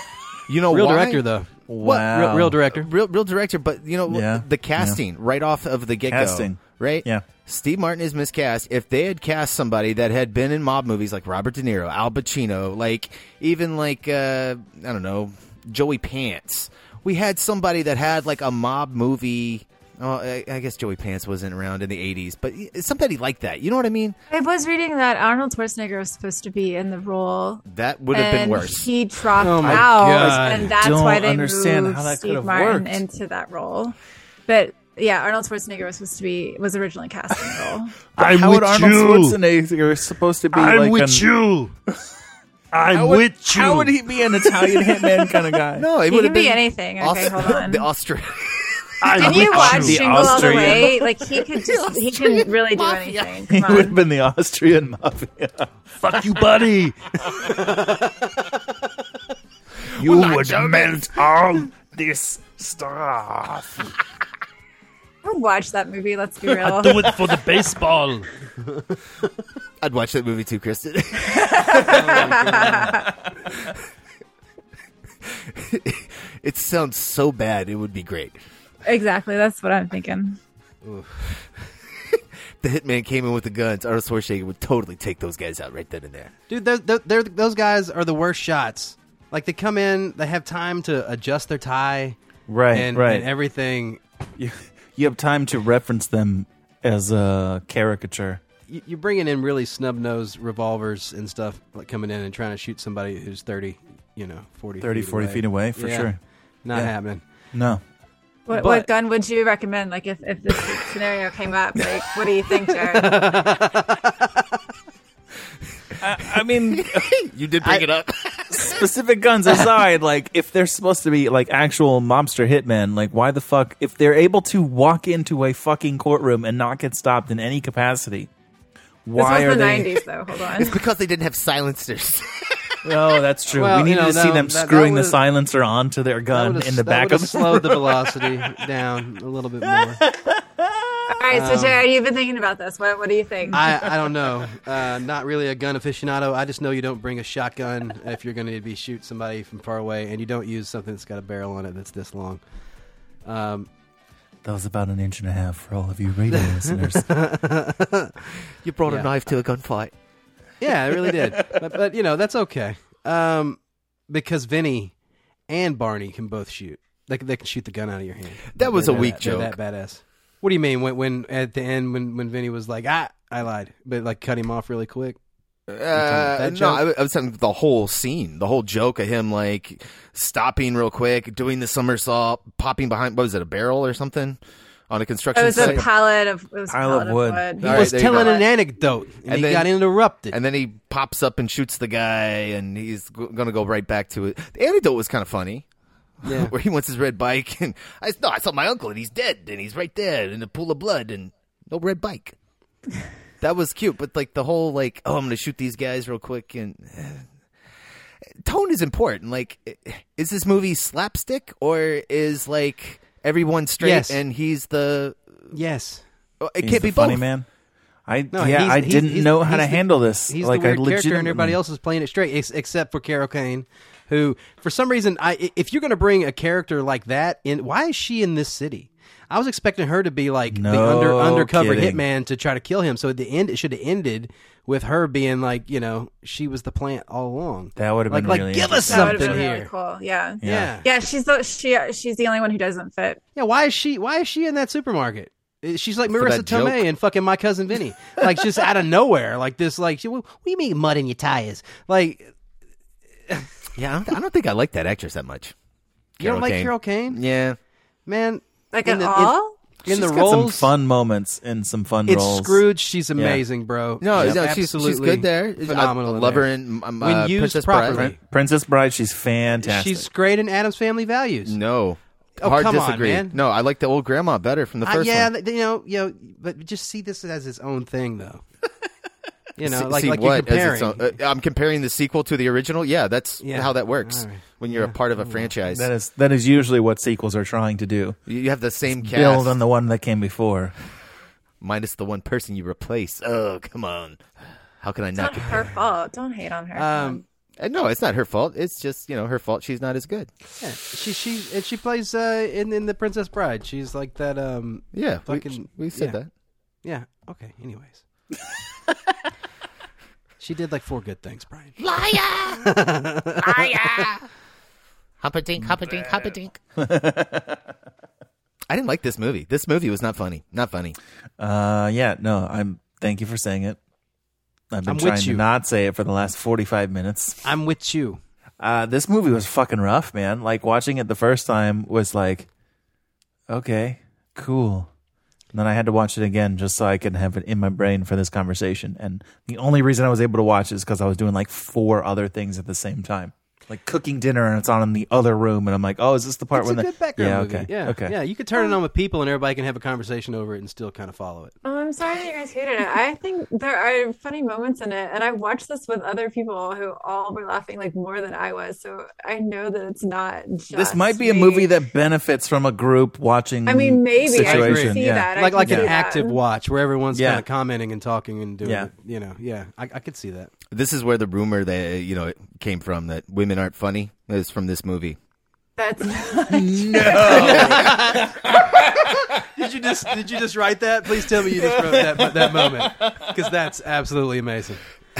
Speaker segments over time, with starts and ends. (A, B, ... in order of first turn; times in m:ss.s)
0:00.5-0:01.2 A
0:00.7-0:02.9 B
0:01.7-0:02.6 C
0:01.8-0:02.2 A
0:02.7-0:24.2 A
0:04.1-0:05.0 C
0:06.1-0:07.2 C
0:24.3-0:33.9 D
0:27.6-0:28.9 A
0:29.4-0:30.8 B
0:29.6-0:33.0 C
0:34.5-0:38.0 D
0:38.2-0:39.4 E
0:38.2-0:41.4 C
0:40.5-0:41.7 E
0:42.7-0:44.0 E
0:42.9-0:45.9 C
0:45.7-0:49.2 A
0:46.0-0:47.8 D
0:49.0-0:50.5 E
0:49.1-0:54.0 D
0:49.2-0:51.0 C
0:51.5-0:53.4 A
0:53.5-0:55.7 C
0:56.0-0:57.8 E
1:00.0-1:01.9 E
1:00.0-1:01.0 A
1:00.0-1:00.9 C
1:01.8-1:03.6 C
1:02.7-1:03.6 E
1:05.2-1:07.3 D
1:06.5-1:08.3 E
1:09.8-1:12.5 A
1:11.3-1:13.1 D
1:11.8-1:13.0 B
1:15.2-1:18.4 A
1:18.8-1:20.4 D
1:20.8-1:21.3 B
1:22.1-1:26.3 A
1:26.5-1:32.2 B
1:32.5-1:33.3 C
1:32.7-1:34.0 B
1:34.4-1:38.4 C
1:38.7-1:46.1 B
1:44.8-1:46.2 C
1:46.6-1:47.2 B
1:47.5-1:47.8 C
1:48.5-1:53.5 D
1:48.6-1:48.8 B
1:48.6-1:48.8 C
1:52.9-1:54.4 B
1:56.0-1:57.1 C
1:56.5-1:58.8 A
1:58.5-2:08.3 C
2:09.0-2:10.0 C
2:09.2-2:10.8 D
2:10.5-2:12.8 A
2:12.8-2:18.0 C
2:13.5-2:15.2 B
2:16.3-2:20.0 B
2:20.0-2:20.4 C
2:21.1-2:23.8 D
2:21.3-2:21.8 B
2:23.5-2:32.4 B
2:33.2-2:33.7 B
2:34.4-2:37.1 C
2:36.3-2:38.1 B
2:38.6-2:39.9 A
2:38.8-2:39.1 B
2:40.6-2:45.0 B
2:45.5-2:55.2 B
2:48.5-2:49.6 A
2:55.7-3:05.9 A
2:55.9-2:56.8 B
3:05.3-3:08.4 D
3:05.5-3:05.8 C
3:06.7-3:07.5 C
3:07.6-3:08.4 A
3:07.6-3:10.4 B
3:09.2-3:15.6 A
3:16.2-3:22.3 A
3:16.2-3:16.5 B
3:23.4-3:27.3 A
3:28.4-3:35.5 A
3:33.8-3:34.2 B
3:35.5-3:36.0 B
3:36.4-3:37.2 A
3:36.6-3:37.5 C
3:38.1-3:41.6 C
3:38.3-3:59.7 B
3:50.5-3:52.0 C
3:57.8-3:59.4 C
3:58.8-4:03.2 D
4:00.4-4:00.7 C
4:00.4-4:00.8 B
4:03.3-4:12.3 B
4:06.1-4:06.9 A
4:13.8-4:15.5 A
4:16.2-4:17.2 B
4:16.2-4:17.6 A
4:18.0-4:20.7 B
4:18.7-4:19.6 D
4:19.8-4:22.6 C
4:22.0-4:28.2 B
4:23.2-4:23.4 C
4:24.0-4:28.1 A
4:27.9-4:30.1 C
4:29.6-4:31.6 B
4:31.4-4:35.3 A
4:32.4-4:33.4 B
4:34.8-4:38.4 B
4:39.6-4:41.2 B
4:39.6-4:45.9 A
4:43.4-4:45.5 B
4:45.7-4:48.2 C
4:48.3-4:49.6 A
4:49.0-4:50.7 C
4:51.6-4:54.2 A
4:54.8-4:55.7 A
4:55.1-4:57.2 D
4:56.7-4:57.2 B
4:57.6-5:00.3 A
5:00.6-5:06.2 B
5:04.9-5:06.3 A
5:06.8-5:08.0 B
5:10.4-5:11.8 B
5:11.8-5:12.7 A
5:12.5-5:14.0 B
5:13.4-5:14.3 A
5:15.2-5:16.6 A
5:15.6-5:16.1 C
5:16.8-5:17.6 C
5:18.7-5:21.0 A
5:21.4-5:23.8 C
5:24.7-5:27.4 C
5:24.9-5:25.4 B
5:27.4-5:28.2 B
5:28.6-5:32.5 C
5:33.5-5:34.9 C
5:35.5-5:48.2 C
5:46.5-5:51.5 B
5:51.6-6:01.7 D
6:00.7-6:05.9 C
6:03.6-6:06.4 D
6:04.4-6:10.5 B
6:07.1-6:07.4 C
6:08.6-6:08.9 C
6:10.7-6:15.2 A
6:15.8-6:17.8 D
6:16.5-6:18.5 C
6:17.2-6:18.3 B
6:17.4-6:18.0 A
6:19.4-6:24.8 B
6:21.6-6:23.2 C